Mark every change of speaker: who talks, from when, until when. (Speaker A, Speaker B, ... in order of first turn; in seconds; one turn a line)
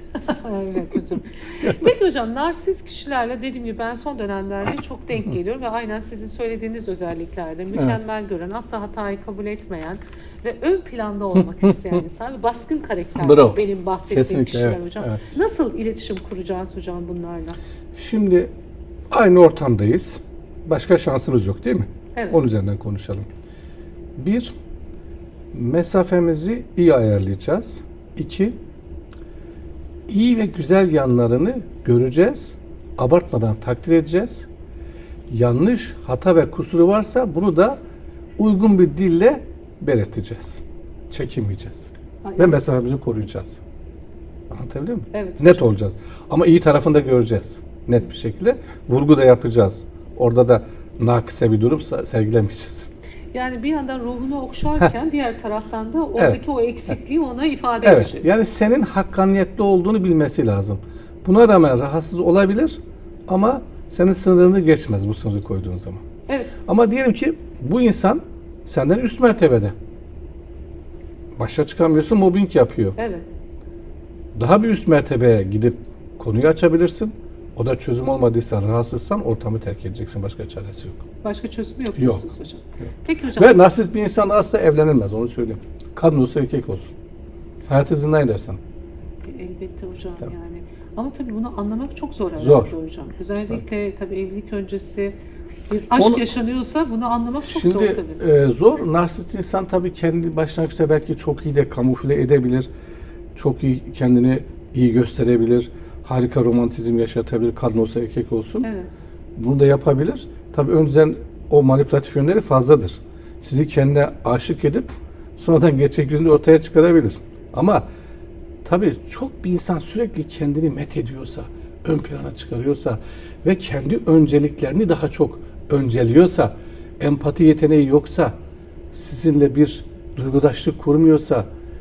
Speaker A: 0.2-17.6
Speaker B: 1.6-1.9
Speaker B: 7.7-8.0
Speaker B: 11.3-12.0
Speaker B: 13.2-15.2
Speaker B: 17.9-18.5
Speaker B: 19.1-23.3
Speaker B: 24.1-24.5
Speaker B: 25.5-28.6
Speaker B: 30.1-34.5
Speaker B: 35.3-37.8
Speaker B: 38.4-43.6
Speaker A: 42.2-42.6
Speaker B: 44.5-52.9
Speaker A: 45.1-45.7
Speaker A: 53.3-58.4
Speaker B: 56.2-56.9
Speaker B: 57.8-66.0
Speaker A: 66.3-66.5
Speaker B: 66.7-69.7
Speaker B: 71.4-73.0
Speaker A: 73.0-73.2
Speaker B: 74.3-81.0
Speaker A: 81.2-83.6
Speaker B: 82.0-82.3
Speaker B: 83.3-86.9
Speaker B: 87.7-88.6
Speaker A: 89.2-95.2
Speaker B: 92.4-92.7
Speaker A: 95.7-98.2
Speaker B: 95.9-96.3
Speaker B: 97.5-102.7
Speaker B: 103.3-108.7
Speaker A: 108.6-108.9
Speaker B: 109.3-117.8
Speaker B: 118.6-128.3
Speaker B: 128.9-131.5